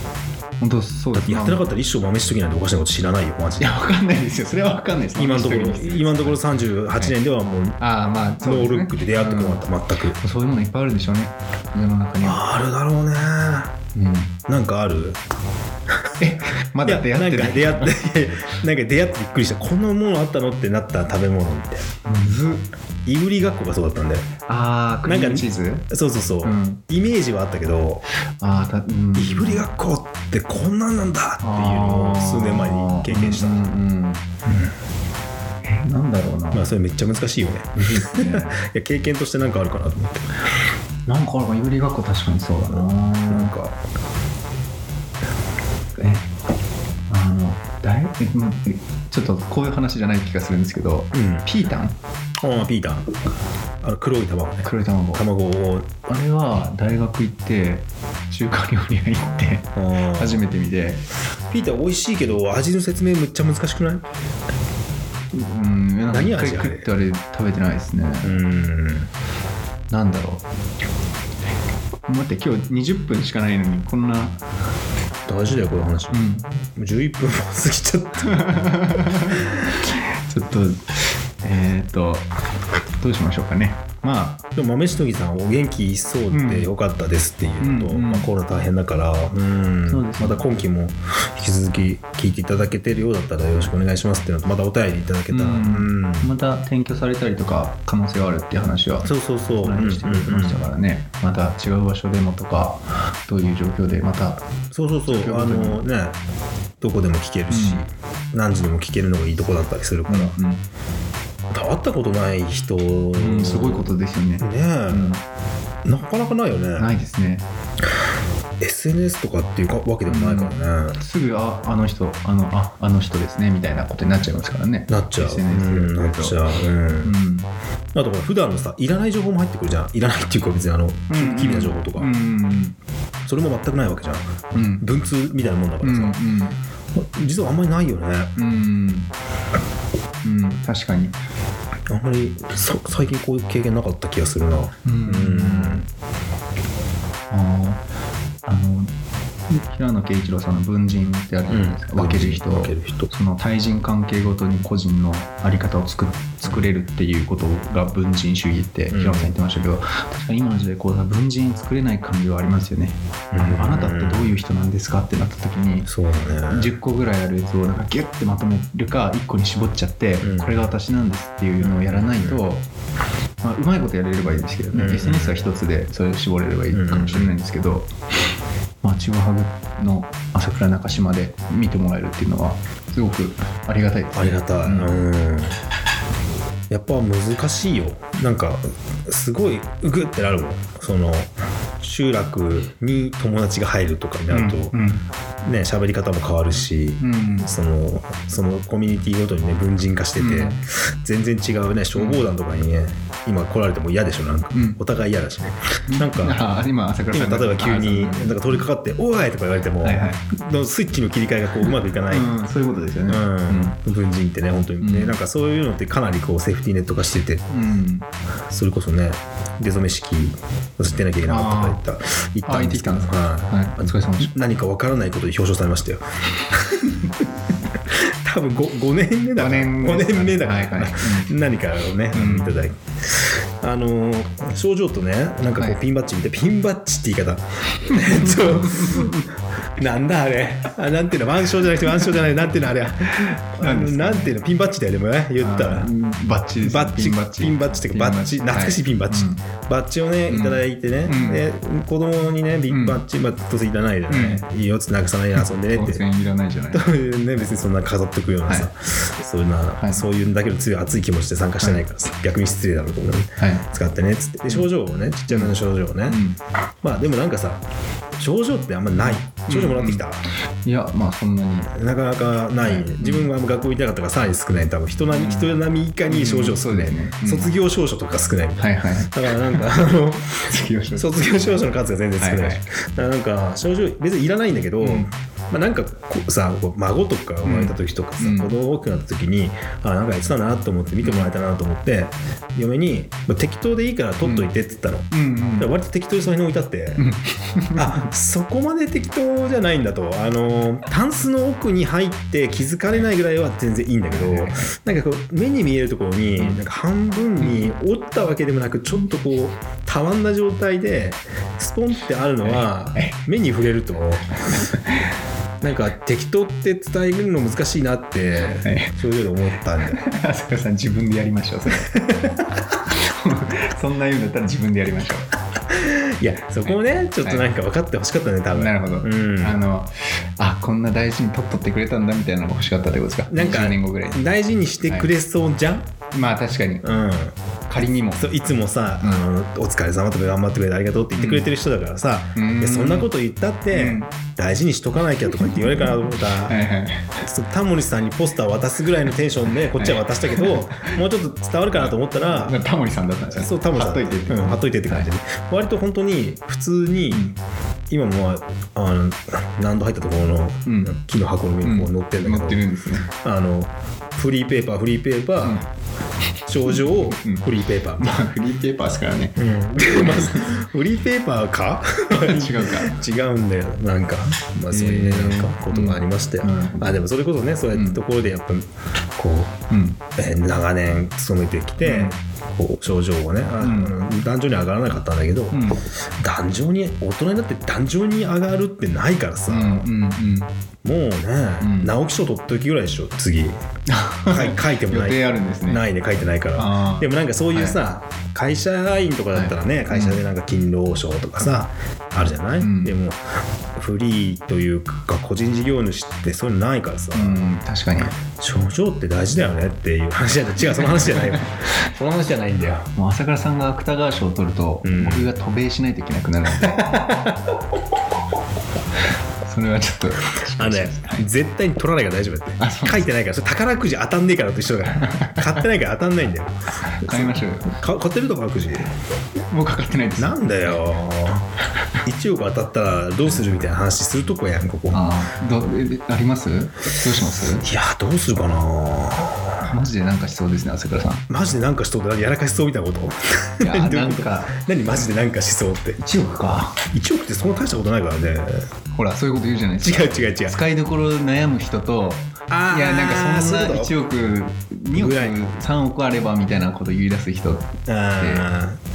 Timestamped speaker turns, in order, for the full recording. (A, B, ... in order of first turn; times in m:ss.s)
0:00.6-0:01.7 A
0:01.1-0:03.7 B
0:03.6-0:06.4 A
0:05.2-0:07.8 B
0:07.8-0:09.6 A
0:08.4-0:10.2 B
0:10.2-0:12.5 A
0:12.2-0:13.8 B
0:13.9-0:14.4 A
0:14.5-0:15.2 B
0:16.2-0:18.0 A
0:16.8-0:21.8 B
0:22.0-0:22.6 A
0:23.0-0:24.3 B
0:24.4-0:25.9 A
0:25.0-0:28.0 B
0:26.4-0:26.8 A
0:28.4-0:29.6 A
0:29.2-0:33.6 B
0:31.4-0:34.2 A
0:34.4-0:34.7 B
0:35.6-0:36.7 A
0:36.5-0:40.2 B
0:37.8-0:38.6 A
0:41.0-0:43.5 A
0:42.7-0:43.8 B
0:46.0-0:46.3 A
0:47.1-0:52.0 A
0:51.1-0:51.4 B
0:52.4-0:53.1 B
0:53.8-0:56.0 B
0:54.6-0:55.2 A
0:56.0-1:01.0 A
0:59.8-1:00.4 B
1:01.5-1:04.0 B
1:05.3-1:08.4 A
1:06.1-1:06.9 B
1:08.2-1:09.1 B
1:09.9-1:10.4 A
1:12.1-1:14.4 A
1:15.3-1:19.5 B
1:16.1-1:16.5 A
1:18.2-1:22.3 A
1:23.0-1:24.4 A
1:24.5-1:36.3 B
1:26.3-1:26.7 A
1:27.6-1:28.3 A
1:29.9-1:30.4 A
1:35.3-1:44.4 A
1:39.0-1:40.6 B
1:44.7-1:46.2 B
1:45.0-1:45.8 A
1:46.8-1:50.3 B
1:47.5-1:47.8 A
1:50.1-1:50.6 A
1:51.5-1:55.2 B
1:53.1-1:55.2 A
1:55.8-1:56.9 B
1:56.8-1:57.4 A
1:58.6-2:01.0 B
2:00.1-2:06.4 A
2:04.9-2:07.1 B
2:07.0-2:07.5 A
2:07.9-2:12.1 B
2:11.1-2:12.8 A
2:13.2-2:16.2 B
2:14.5-2:14.8 A
2:15.8-2:16.6 A
2:16.9-2:18.4 B
2:18.4-2:19.1 A
2:20.2-2:21.2 A
2:21.9-2:25.9 B
2:24.8-2:25.8 A
2:27.3-2:27.8 A
2:28.4-2:28.9 A
2:29.5-2:45.9 A
2:31.5-2:33.1 B
2:38.9-2:39.3 B
2:43.3-2:44.4 B
2:45.9-2:46.7 B
2:46.5-2:52.6 A
2:50.2-2:50.5 B
2:51.6-2:52.4 B
2:53.4-2:57.9 A
2:54.7-2:55.4 B
2:56.7-2:57.3 B
2:58.8-3:04.9 A
3:04.1-3:05.6 B
3:06.7-3:14.7 B
3:14.3-3:15.0 A
3:15.4-3:26.4 B
3:17.0-3:17.5 A
3:20.2-3:20.6 A
3:21.9-3:22.2 A
3:24.5-3:24.8 A
3:25.9-3:28.7 A
3:27.1-3:32.3 B
3:29.8-3:30.2 A
3:32.1-3:33.8 A
3:33.1-3:37.4 B
3:34.8-3:35.1 A
3:37.5-3:38.1 A
3:38.5-3:47.2 B
3:41.2-3:41.8 A
3:42.5-3:44.3 A
3:47.9-3:59.2 B
3:49.4-3:51.3 A
3:52.1-3:52.6 A
3:57.9-3:59.2 A
3:59.8-4:05.9 B
4:03.1-4:04.4 A
4:05.4-4:09.4 A
4:06.6-4:16.0 B
4:10.3-4:11.4 A
4:12.7-4:13.0 A
4:14.1-4:14.4 A
4:15.4-4:16.9 A
4:16.7-4:26.2 B
4:19.8-4:20.0 A
4:23.4-4:23.6 A
4:25.3-4:25.5 A
4:26.1-4:26.4 A
4:26.8-4:27.6 B
4:28.2-4:30.2 B
4:29.0-4:30.0 A
4:30.6-4:31.7 A
4:31.7-4:57.0 B
4:32.6-4:33.3 A
4:35.1-4:35.5 A
4:36.1-4:37.5 A
4:38.6-4:39.7 A
4:40.4-4:41.1 A
4:42.2-4:42.6 A
4:44.8-4:45.1 A
4:47.4-4:48.5 A
4:51.0-4:51.3 A
4:54.2-4:54.5 A
4:55.1-4:55.7 A
4:57.0-4:58.0 A
4:57.8-5:14.4 B
5:04.1-5:04.7 A
5:12.4-5:13.2 A
5:15.6-5:20.0 B
5:18.6-5:18.9 A
5:19.8-5:25.3 A
5:25.7-5:29.6 B
5:26.7-5:27.5 A
5:28.5-5:34.2 A
5:33.3-5:35.9 B
5:36.1-5:36.9 A
5:36.8-5:37.3 B
5:37.7-5:38.2 A
5:38.1-5:46.6 B
5:41.2-5:41.5 A
5:42.4-5:43.1 A
5:43.7-5:44.1 A
5:45.4-5:47.2 A
5:47.2-5:52.6 B
5:49.7-5:51.0 A
5:51.8-5:55.1 A
5:53.3-5:57.3 B
5:57.9-6:05.6 B
6:00.6-6:01.0 A
6:01.6-6:03.1 A
6:06.5-6:08.2 B
6:06.8-6:07.4 A
6:08.0-6:10.6 A
6:09.4-6:19.5 B
6:12.1-6:12.9 A
6:14.7-6:16.9 A
6:17.7-6:18.0 A
6:19.7-6:20.0 A
6:20.2-6:25.6 B
6:21.8-6:22.2 A
6:23.6-6:23.9 A
6:25.5-6:25.8 A
6:26.2-6:29.9 B
6:29.5-6:30.5 A
6:30.8-6:33.6 B
6:31.6-6:31.9 A
6:33.9-6:35.8 A
6:34.2-6:43.2 B
6:36.6-6:37.8 A
6:39.3-6:40.2 A
6:42.6-6:42.9 A
6:43.8-6:47.4 B
6:47.1-6:48.1 A
6:48.3-6:52.9 B
6:51.0-6:51.4 A
6:52.9-6:57.1 A
6:54.8-6:55.3 B
6:56.6-6:57.5 B
6:59.4-7:01.3 A
7:00.6-7:08.9 B
7:02.6-7:03.0 A
7:04.9-7:05.6 A
7:06.9-7:07.7 A
7:09.5-7:10.8 A
7:10.2-7:11.5 B
7:12.0-7:15.0 B
7:14.9-7:17.6 A
7:17.6-7:19.7 B
7:19.6-7:21.2 A
7:21.3-7:26.0 B
7:23.6-7:24.5 A
7:26.0-7:26.8 A
7:26.9-7:28.7 B
7:28.9-7:38.5 A
7:29.8-7:30.6 B
7:32.5-7:33.9 B
7:34.9-7:35.4 B
7:37.9-7:38.8 B